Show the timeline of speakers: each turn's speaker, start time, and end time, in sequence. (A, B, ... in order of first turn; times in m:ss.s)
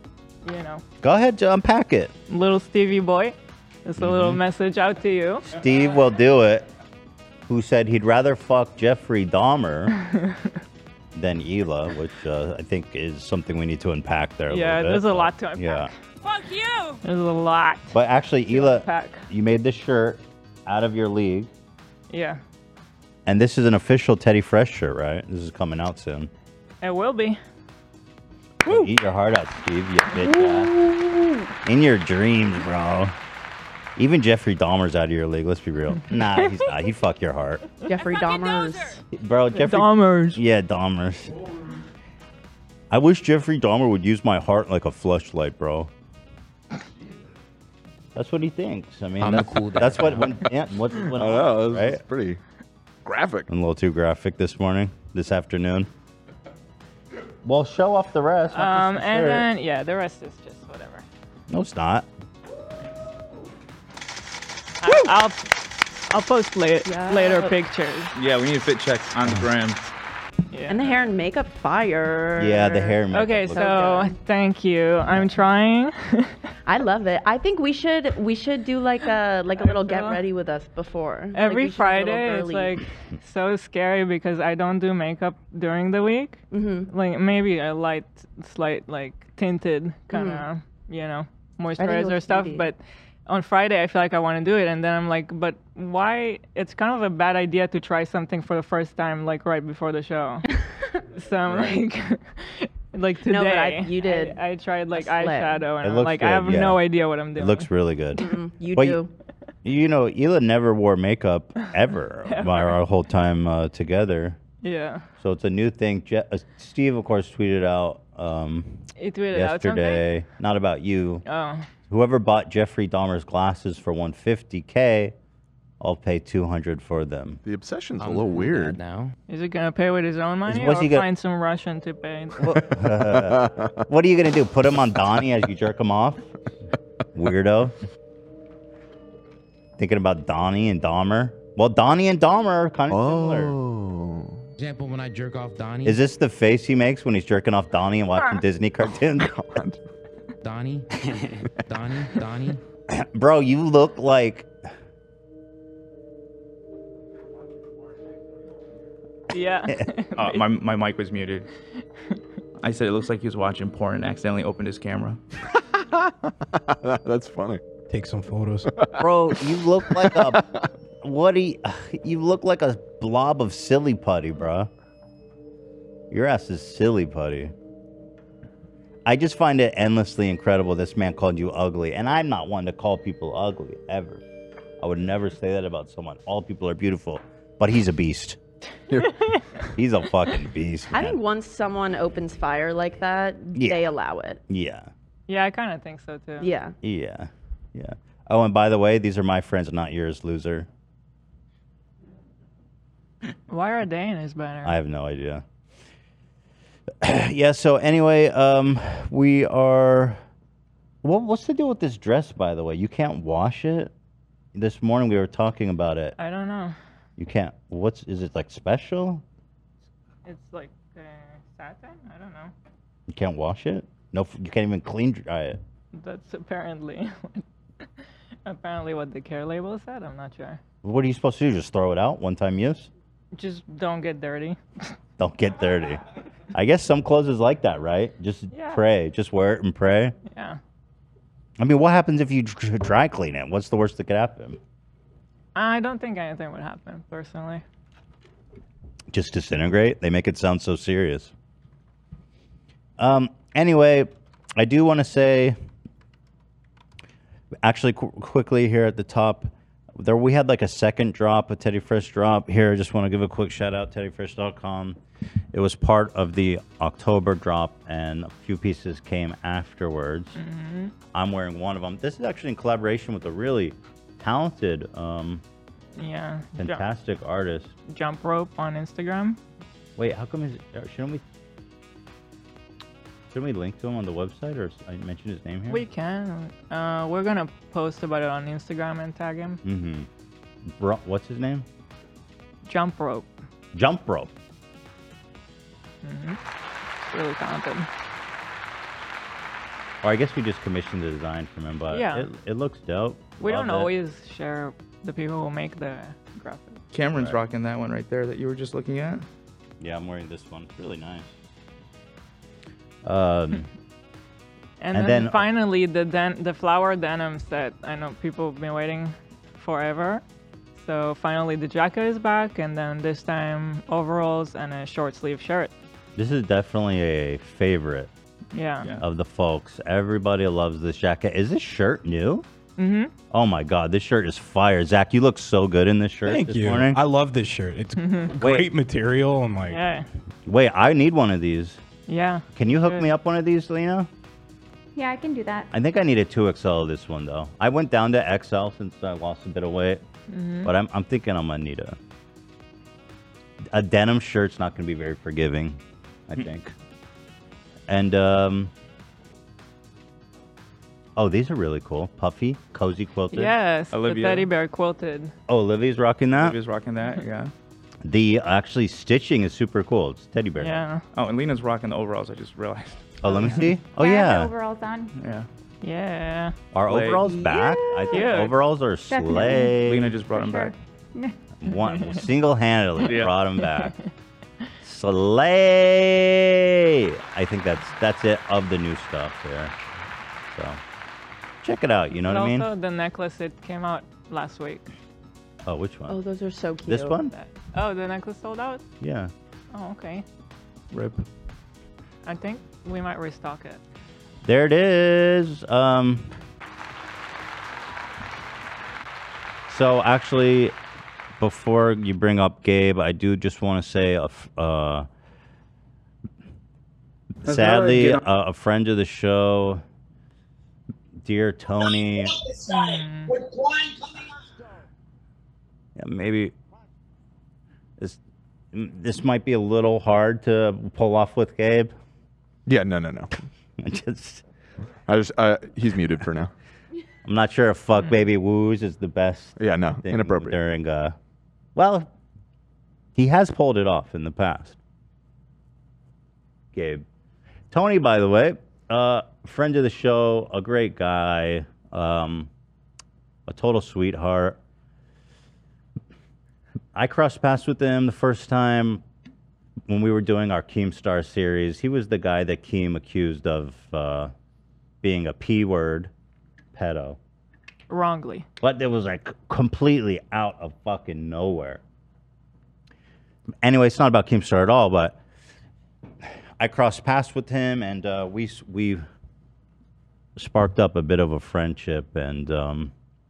0:00.4-0:00.8 A
0:01.0-0:02.1 B
0:02.3-0:05.5 A
0:04.0-0:04.4 B
0:05.5-0:06.7 B
0:07.5-0:09.9 B
0:10.0-0:10.5 A
0:11.1-0:15.9 B
0:14.5-0:15.9 A
0:17.0-0:17.9 A
0:17.9-0:21.5 B
0:18.5-0:19.2 A
0:22.1-0:22.4 A
0:23.2-0:26.3 B
0:26.8-0:27.4 A
0:28.6-0:30.7 B
0:30.1-0:31.5 C
0:31.6-0:33.1 B
0:34.0-0:37.6 B
0:36.1-0:36.6 A
0:37.8-0:39.0 C
0:38.4-0:38.8 A
0:39.1-0:41.3 B
0:39.6-0:40.4 A
0:42.9-0:45.9 B
0:48.1-0:52.0 B
0:49.2-0:50.4 D
0:51.1-0:52.4 E
0:53.0-0:53.5 E
0:53.5-0:55.9 B
0:57.4-0:59.5 B
0:58.5-1:01.0 A
1:01.5-1:02.1 B
1:04.8-1:05.5 A
1:06.1-1:08.1 A
1:06.8-1:07.5 C
1:08.2-1:09.8 F
1:10.5-1:10.9 A
1:10.7-1:13.0 C
1:12.4-1:14.0 B
1:13.1-1:16.3 A
1:13.5-1:14.1 C
1:16.6-1:22.8 C
1:19.6-1:20.2 A
1:21.3-1:40.5 A
1:26.5-1:26.9 C
1:30.1-1:30.4 C
1:31.8-1:32.7 C
1:41.1-1:47.7 A
1:43.2-1:44.4 C
1:44.9-1:45.7 C
1:45.8-1:46.8 B
1:47.4-1:49.0 B
1:48.2-1:49.1 C
1:49.6-1:54.4 B
1:52.2-1:52.8 A
1:54.6-1:55.0 A
1:55.2-2:01.2 B
1:59.0-2:00.0 A
2:01.2-2:01.7 A
2:01.9-2:05.1 B
2:05.8-2:07.4 B
2:07.4-2:08.8 E
2:08.0-2:09.1 D
2:09.3-2:12.4 A
2:10.5-2:11.1 B
2:12.4-2:16.2 B
2:13.0-2:13.7 E
2:17.1-2:17.7 B
2:19.8-2:23.6 B
2:22.9-2:24.4 E
2:24.6-2:26.0 D
2:25.8-2:29.3 B
2:29.2-2:29.8 E
2:30.4-2:32.6 D
2:32.9-2:34.5 B
2:39.3-2:40.4 A
2:40.2-2:41.5 F
2:42.6-2:45.2 F
2:45.5-2:47.6 E
2:47.9-2:48.7 G
2:49.0-2:50.4 B
2:50.0-2:50.6 E
2:51.0-2:54.7 B
2:56.1-2:57.5 B
2:59.0-3:04.2 B
3:04.8-3:08.4 B
3:09.0-3:09.4 A
3:09.7-3:11.2 B
3:10.9-3:14.4 C
3:13.5-3:13.9 B
3:14.5-3:14.9 B
3:15.3-3:16.5 A
3:16.4-3:16.7 C
3:16.8-3:20.7 B
3:23.5-3:24.8 A
3:24.6-3:25.4 B
3:27.0-3:30.2 B
3:31.0-3:33.9 B
3:34.5-3:36.1 B
3:36.2-3:36.7 A
3:37.2-3:39.2 B
3:40.2-3:42.5 A
3:43.1-3:45.6 B
3:45.9-3:47.4 A
3:48.0-3:50.6 A
3:50.8-3:52.9 B
3:53.3-3:54.9 A
3:55.2-3:56.0 B
3:56.5-4:00.1 B
3:58.5-3:58.8 A
4:00.2-4:00.6 A
4:01.6-4:04.6 B
4:05.5-4:07.6 A
4:09.1-4:11.3 B
4:13.0-4:15.6 B
4:17.6-4:25.0 B
4:25.5-4:30.4 B
4:30.4-4:30.9 A
4:31.1-4:35.4 B
4:36.0-4:36.8 A
4:36.6-4:37.7 B
4:37.9-4:39.4 A
4:40.0-4:41.2 B
4:43.3-4:45.8 B
4:45.7-4:49.6 A
4:49.6-4:50.1 B
4:50.6-4:51.6 B
4:52.6-4:53.3 A
4:53.7-4:54.3 B
4:56.0-4:56.4 A
4:57.0-4:57.9 A
5:00.0-5:03.9 B
5:01.9-5:02.3 A
5:03.4-5:06.8 A
5:06.9-5:09.2 F
5:07.1-5:07.4 B
5:09.8-5:11.3 B
5:13.0-5:13.7 B
5:14.8-5:20.2 A
5:14.9-5:15.4 B
5:20.8-5:25.7 A
5:26.2-5:28.1 B
5:28.5-5:28.9 A
5:29.0-5:32.4 B
5:32.8-5:33.1 A
5:33.3-5:37.0 B
5:36.2-5:39.8 G
5:38.0-5:38.4 A
5:38.4-5:38.7 B
5:39.7-5:40.1 A
5:40.4-5:41.8 B
5:42.1-5:43.1 A
5:42.5-5:44.1 B
5:44.9-5:45.7 H
5:45.7-5:50.0 B
5:50.3-5:50.7 A
5:50.6-5:52.0 B
5:53.7-5:56.7 B
5:57.9-5:58.7 B
6:01.2-6:03.5 B
6:03.3-6:05.3 A
6:03.9-6:04.5 F
6:05.5-6:06.6 B
6:06.4-6:07.5 F
6:08.0-6:10.8 B
6:10.6-6:11.0 A
6:11.1-6:13.6 F
6:13.2-6:14.5 B
6:14.0-6:15.1 H
6:15.2-6:15.5 F
6:15.8-6:16.5 A
6:16.7-6:20.1 B
6:16.9-6:17.3 F
6:17.6-6:18.2 H
6:18.1-6:18.5 A
6:19.1-6:21.4 H
6:19.6-6:20.7 F
6:21.6-6:23.9 B
6:21.8-6:22.2 A
6:23.0-6:23.3 F
6:23.6-6:23.9 A
6:24.8-6:29.7 B
6:30.5-6:30.8 B
6:31.6-6:32.7 B
6:32.3-6:34.9 A
6:35.6-6:36.2 B
6:36.1-6:37.2 C
6:36.9-6:37.3 B
6:37.3-6:38.8 A
6:39.0-6:39.3 B
6:39.7-6:40.2 A
6:40.9-6:41.2 F
6:42.2-6:43.8 A
6:44.4-6:46.3 B
6:49.7-6:50.7 B
6:51.4-6:55.1 B
6:57.4-6:59.8 B
7:01.2-7:02.4 B
7:02.7-7:03.4 A
7:06.0-7:06.5 B
7:08.7-7:11.9 B
7:12.7-7:13.3 E
7:13.8-7:14.4 B
7:15.1-7:16.5 E
7:17.2-7:21.2 B
7:19.6-7:20.6 E
7:21.7-7:22.1 B
7:23.2-7:24.8 B
7:26.7-7:27.0 B
7:27.7-7:32.5 B
7:33.5-7:34.6 B
7:36.9-7:39.0 B
7:39.9-7:44.3 B
7:45.0-7:46.1 B
7:46.7-7:47.2 B
7:47.9-7:48.5 A
7:48.6-7:51.8 B
7:53.6-7:55.2 B
7:56.6-7:59.0 B
8:00.4-8:02.9 B